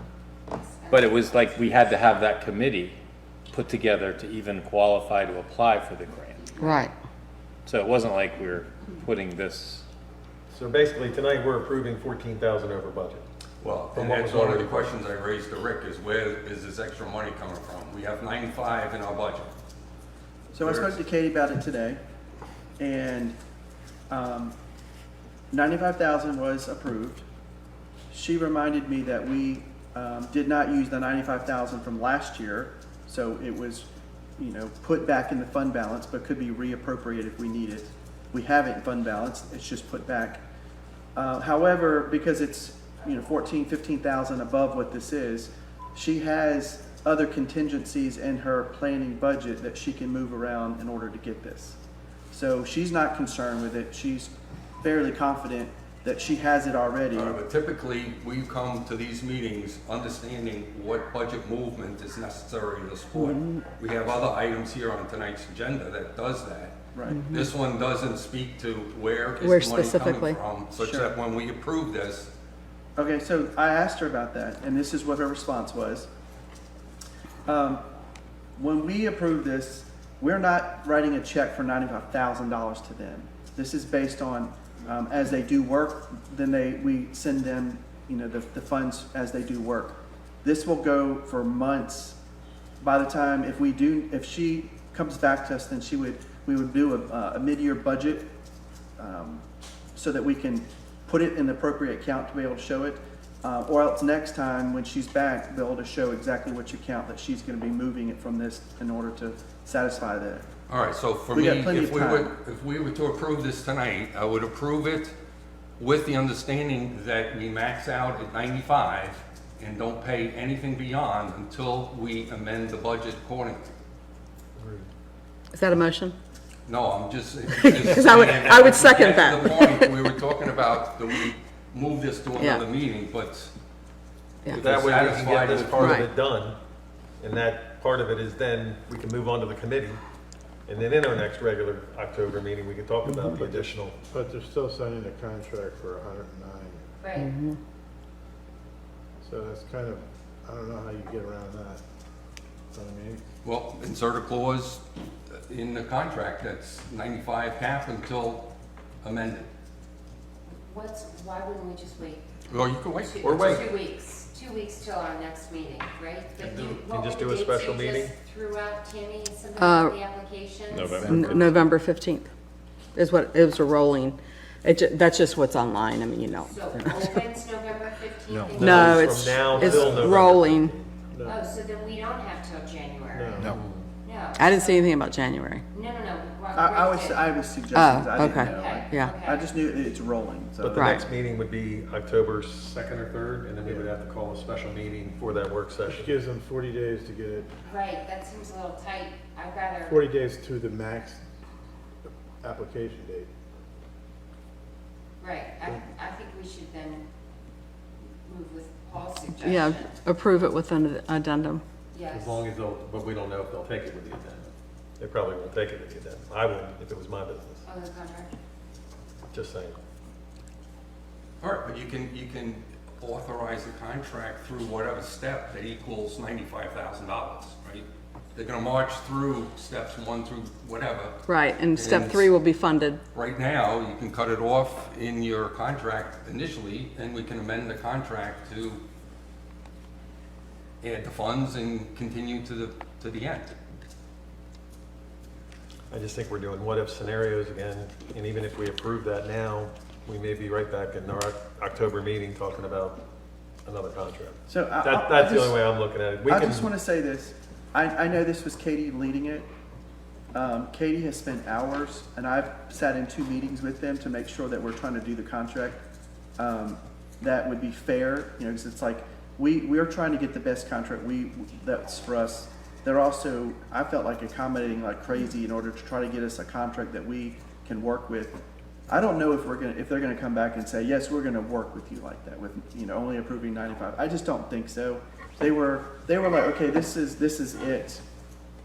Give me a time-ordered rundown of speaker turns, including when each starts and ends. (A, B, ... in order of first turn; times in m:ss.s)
0:00.5-0:01.5 A
0:00.9-0:03.0 B
0:03.5-0:06.4 B
0:06.4-0:06.9 A
0:06.6-0:06.9 C
0:07.6-0:09.8 B
0:10.5-0:13.2 D
0:13.6-0:19.5 E
0:13.9-0:14.9 D
0:20.5-0:22.0 F
0:20.6-0:21.0 E
0:22.8-0:23.4 F
0:24.1-0:24.5 F
0:25.5-0:27.2 F
0:28.1-0:40.4 F
0:41.2-0:51.8 F
0:52.3-0:57.4 F
0:57.1-1:06.8 E
1:06.9-1:07.2 F
1:07.1-1:07.5 C
1:07.3-1:12.3 E
1:09.4-1:11.0 C
1:13.0-1:16.1 F
1:17.5-1:17.8 F
1:18.6-1:32.2 F
1:32.8-1:38.3 F
1:39.0-1:39.4 F
1:40.0-1:50.5 F
1:50.7-1:55.1 E
1:51.3-1:52.3 F
1:55.8-2:03.7 E
2:04.6-2:04.9 D
2:05.5-2:06.2 C
2:06.7-2:13.5 E
2:07.6-2:09.9 C
2:07.9-2:08.4 D
2:12.4-2:12.6 C
2:14.5-2:16.0 E
2:14.6-2:16.6 D
2:15.8-2:16.1 C
2:17.2-2:20.0 D
2:20.7-2:24.0 D
2:24.1-2:26.9 G
2:27.0-2:27.3 A
2:27.2-2:27.6 C
2:29.2-2:31.8 G
2:32.7-2:33.2 G
2:33.4-2:34.8 E
2:35.5-2:38.5 E
2:39.0-2:39.5 E
2:40.5-2:42.3 A
2:42.5-2:43.7 E
2:43.0-2:51.6 A
2:43.2-2:43.7 D
2:46.4-2:48.2 D
2:49.6-2:50.0 C
2:50.7-2:51.2 B
2:51.1-2:52.3 C
2:53.0-2:56.6 C
2:56.5-3:00.0 A
2:58.6-3:00.9 D
2:58.6-3:00.8 C
2:59.7-3:00.1 G
3:01.1-3:01.4 G
3:01.2-3:03.5 A
3:03.1-3:03.5 G
3:04.0-3:04.8 A
3:04.4-3:05.6 C
3:05.7-3:07.3 A
3:06.6-3:10.9 F
3:07.7-3:09.2 C
3:08.2-3:09.5 A
3:10.6-3:16.2 D
3:10.7-3:11.0 C
3:15.9-3:17.5 G
3:17.6-3:20.0 A
3:19.9-3:21.2 G
3:22.1-3:23.3 G
3:25.2-3:27.0 A
3:28.2-3:30.0 A
3:29.4-3:31.6 C
3:31.9-3:32.4 A
3:32.1-3:37.6 D
3:37.6-3:38.3 A
3:39.3-3:39.8 D
3:41.4-3:52.3 E
3:51.3-3:53.0 C
3:53.1-3:58.8 E
4:00.8-4:03.6 E
4:05.9-4:13.0 D
4:13.6-4:16.7 D
4:14.5-4:15.7 F
4:16.3-4:19.5 F
4:20.3-4:25.8 F
4:26.4-4:48.0 F